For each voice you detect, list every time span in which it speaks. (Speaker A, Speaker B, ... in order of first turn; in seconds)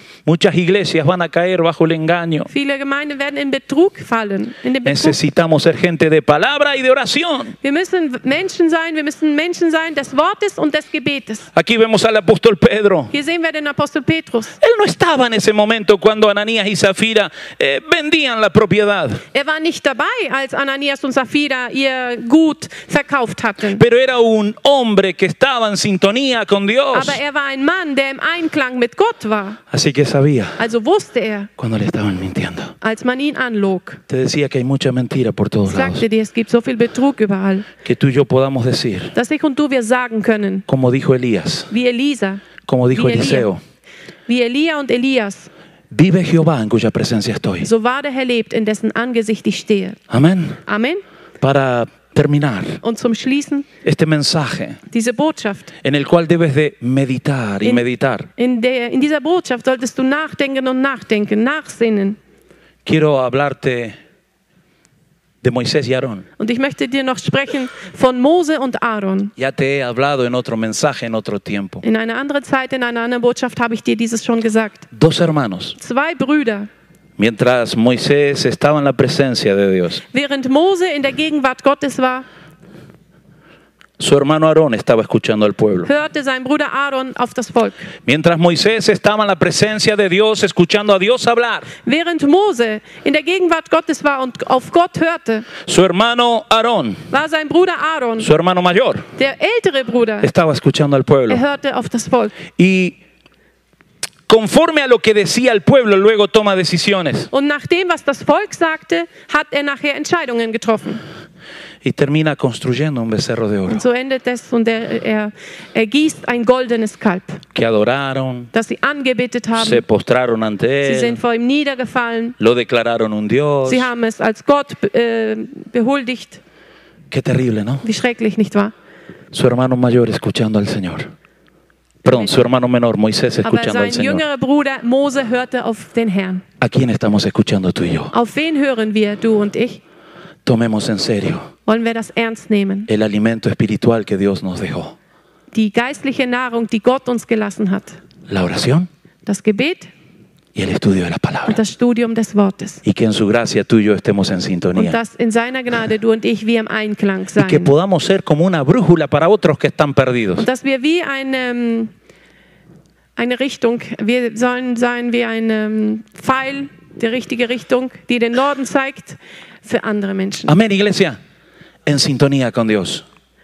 Speaker A: 0.2-2.5, 4.8-7.5, 11.5-13.1, 14.6-19.2, 23.7-27.2, 29.7-30.6, 31.6-32.7, 34.1-36.0, 37.8-39.1, 40.7-41.7, 42.6-43.6, 45.9-47.7, 50.1-50.6, 51.4-52.8, 53.8-54.8, 55.8-58.3, 62.8-64.0, 65.4-66.2, 69.4-71.8, 74.9-75.8, 77.2-80.0, 84.0-85.9, 88.0-91.7, 95.6-97.0, 98.2-99.0, 100.2-101.4, 102.5-103.0, 104.3-107.3, 111.8-113.8, 117.5-118.5, 119.5-121.2, 122.4-123.9, 127.1-127.8, 129.3-131.1, 132.0-134.2, 136.6-138.1, 140.4-141.5, 142.9-144.9, 148.3-148.9, 150.5-151.6, 152.8-155.0, 157.4-160.4, 170.5-171.2, 171.8-173.0
Speaker B: 2.5-5.2, 7.6-11.5, 13.1-14.6, 19.3-23.8, 26.9-29.6, 30.6-31.5, 32.8-34.0, 35.7-37.7, 39.1-40.6, 41.7-43.5, 44.3-45.5, 47.6-50.0, 50.7-51.0, 52.8-53.7, 54.9-55.7, 58.4-62.2, 66.4-69.3, 71.8-74.9, 75.8-76.7, 80.1-82.2, 85.8-87.9, 91.8-95.5, 97.1-98.3, 99.2-100.3, 101.3-102.4, 107.3-111.0, 113.7-117.4, 118.5-119.8, 120.8-122.3, 123.6-126.4, 127.8-128.7, 133.4-136.4, 138.1-139.8, 141.7-142.9, 145.5-148.0, 149.2-149.9, 151.4-152.8, 154.8-157.7, 160.4-161.9, 163.2-170.6